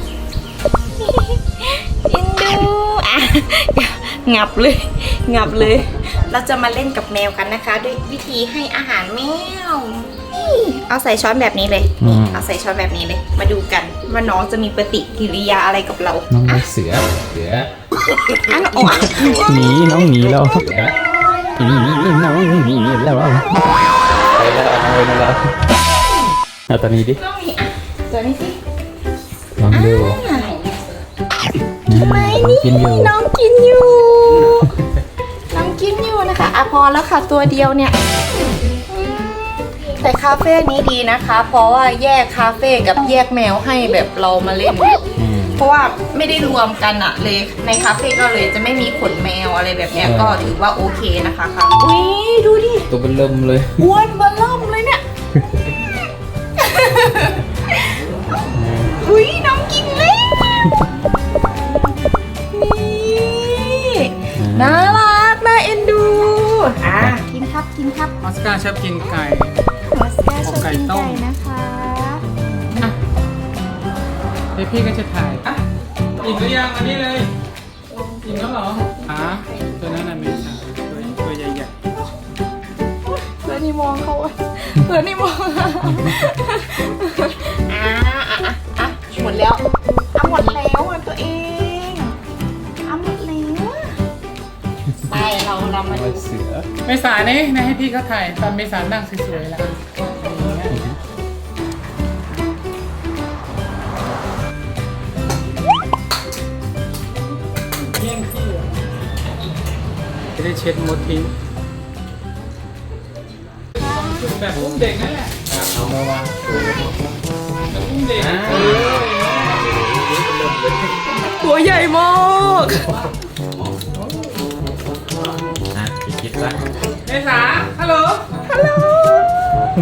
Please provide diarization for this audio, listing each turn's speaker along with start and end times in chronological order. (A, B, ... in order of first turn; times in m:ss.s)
0:01.0-0:16.7 A
0:12.0-0:12.4 B
0:16.3-0:17.7 B
0:18.2-0:19.7 A
0:18.8-0:21.0 B
0:21.6-0:23.5 B
0:24.3-0:25.5 B
0:26.7-0:27.2 B
0:27.1-0:28.6 A
0:29.6-0:30.2 B
0:29.7-0:30.5 A
0:31.9-0:33.2 B
0:31.9-0:34.8 A
0:35.5-0:38.0 A
0:38.9-0:45.0 A
0:45.2-0:45.6 B
0:45.6-0:52.9 A
0:50.0-0:50.5 B
0:52.9-0:53.9 B
0:53.8-0:55.0 A
0:55.4-0:55.6 B
0:56.6-0:58.0 A
0:58.5-0:58.9 B
0:59.0-1:00.8 A
1:02.5-1:08.2 A
1:04.4-1:05.0 B
1:08.2-1:09.6 C
1:09.9-1:12.2 A
1:10.4-1:11.2 C
1:12.3-1:12.8 B
1:14.6-1:15.6 C
1:16.2-1:17.3 C
1:17.9-1:20.2 A
1:18.2-1:21.7 C
1:23.1-1:32.2 A
1:32.9-1:34.0 A
1:35.1-1:36.3 A
1:35.9-1:36.7 B
1:36.8-1:40.8 C
1:47.9-1:48.7 C
1:50.4-1:51.3 C
1:53.8-1:56.0 C
1:55.5-1:56.9 B
1:57.7-2:01.0 C
1:58.2-1:59.1 B
1:59.6-1:59.9 B
2:01.1-2:02.9 A
2:05.7-2:06.7 B
2:07.0-2:08.3 C
2:08.4-2:09.3 A